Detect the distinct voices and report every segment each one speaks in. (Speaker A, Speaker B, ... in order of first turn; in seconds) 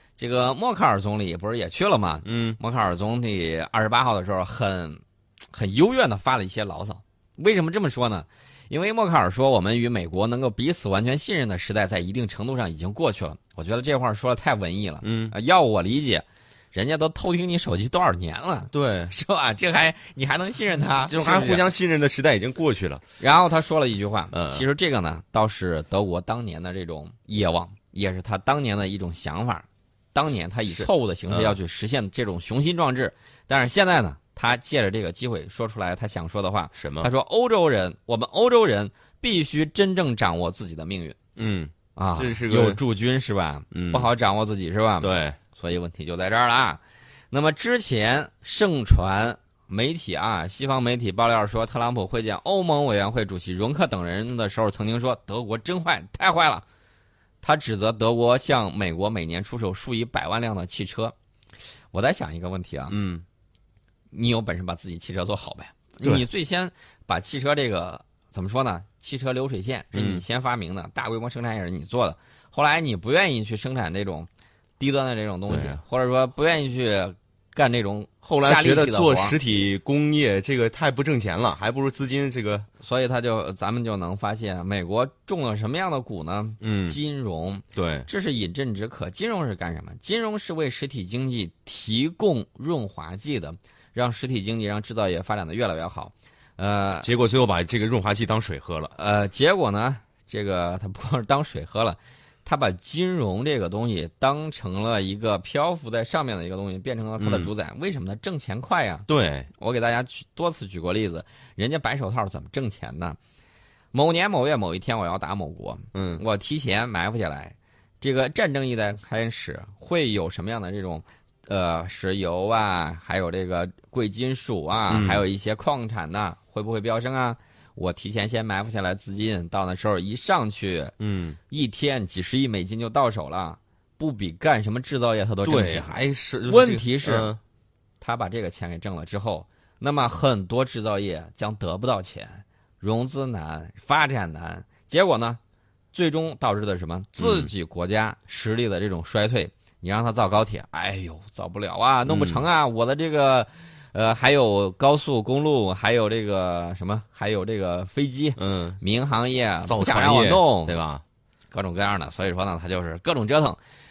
Speaker A: 0.2-21.6, 23.2-41.2, 42.0-46.8, 47.3-56.6, 57.4-61.1, 61.9-63.0, 64.1-79.4, 82.8-97.1, 99.0-113.2, 113.9-130.9, 131.5-137.3, 138.0-145.4, 145.9-160.8, 161.5-163.6
Speaker B: 2.2-2.6, 15.0-15.3, 18.7-19.1, 21.1-23.0, 24.3-24.6, 30.7-31.6, 36.8-37.1, 41.4-42.8, 43.7-44.1, 45.0-45.4, 62.9-63.2, 69.9-70.2, 75.5-75.8, 78.2-82.7, 86.6-87.0, 87.8-88.1, 97.0-98.9, 107.2-107.5, 109.1-109.5, 115.9-116.2, 124.9-125.2, 131.0-131.4, 135.4-137.4, 147.2-147.5, 152.1-152.4, 158.4-158.8, 159.7-161.0